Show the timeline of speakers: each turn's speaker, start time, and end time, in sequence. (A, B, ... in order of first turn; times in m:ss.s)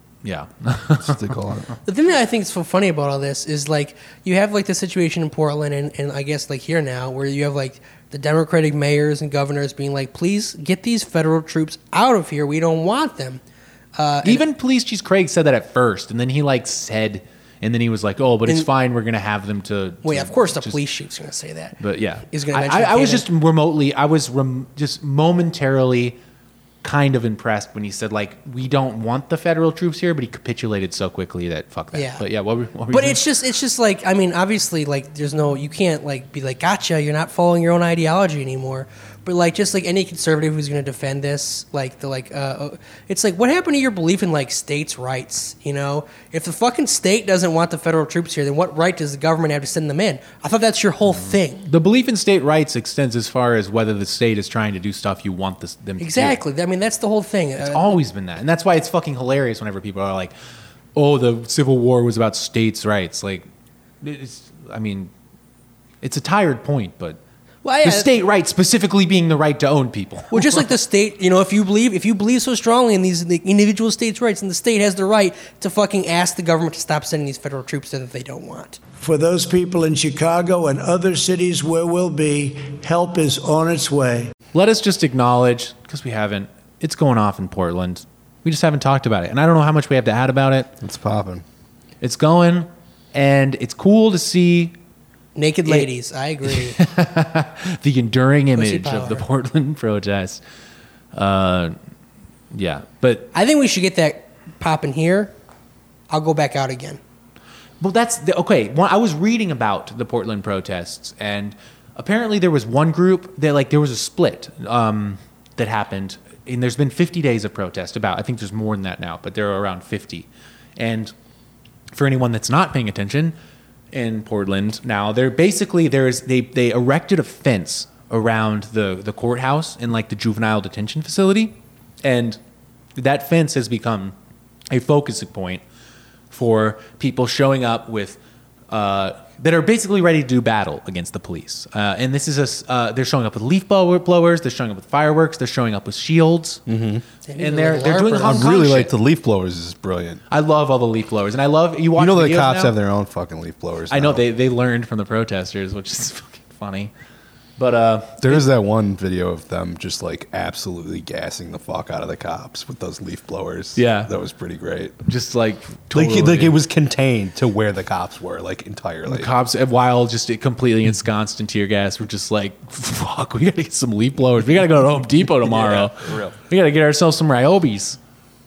0:00.2-0:01.3 A
0:01.0-0:01.7 B
0:01.8-0:13.4 C
0:14.0-0:14.4 C
0:14.2-0:20.8 A
0:20.0-0:21.8 C
0:21.8-0:26.2 A
0:22.3-0:23.2 C
0:26.8-0:33.2 A
0:31.9-0:32.2 C
0:32.9-0:51.6 C
0:51.1-0:56.4 A
0:56.0-0:57.9 C
0:57.6-1:00.3 A
1:00.9-1:03.4 A
1:04.0-1:05.1 A
1:06.0-1:07.2 A
1:07.6-1:08.1 C
1:07.8-1:10.7 A
1:10.3-1:18.8 C
1:19.0-1:24.3 D
1:24.5-1:30.7 A
1:30.8-1:31.4 B
1:32.0-1:34.8 A
1:35.4-1:36.8 C
1:36.5-1:40.4 A
1:38.6-1:39.2 C
1:41.1-1:41.7 A
1:42.5-1:43.3 A
1:43.3-1:45.3 C
1:46.1-1:47.0 C
1:47.8-2:01.1 A
2:01.9-2:03.3 A
2:03.9-2:12.4 A
2:13.0-2:14.1 A
2:14.7-2:15.6 A
2:16.3-2:18.2 A
2:18.7-2:26.6 A
2:26.7-2:27.0 B
2:27.3-2:28.4 C
2:27.4-2:28.9 A
2:28.2-2:30.2 B
2:30.3-2:32.7 A
2:32.0-2:34.2 B
2:33.9-2:36.9 A
2:37.6-2:38.4 A
2:38.2-2:45.0 B
2:43.8-2:44.1 A
2:45.1-2:46.6 A
2:45.9-2:49.3 B
2:49.0-2:58.0 A
2:55.4-2:56.3 B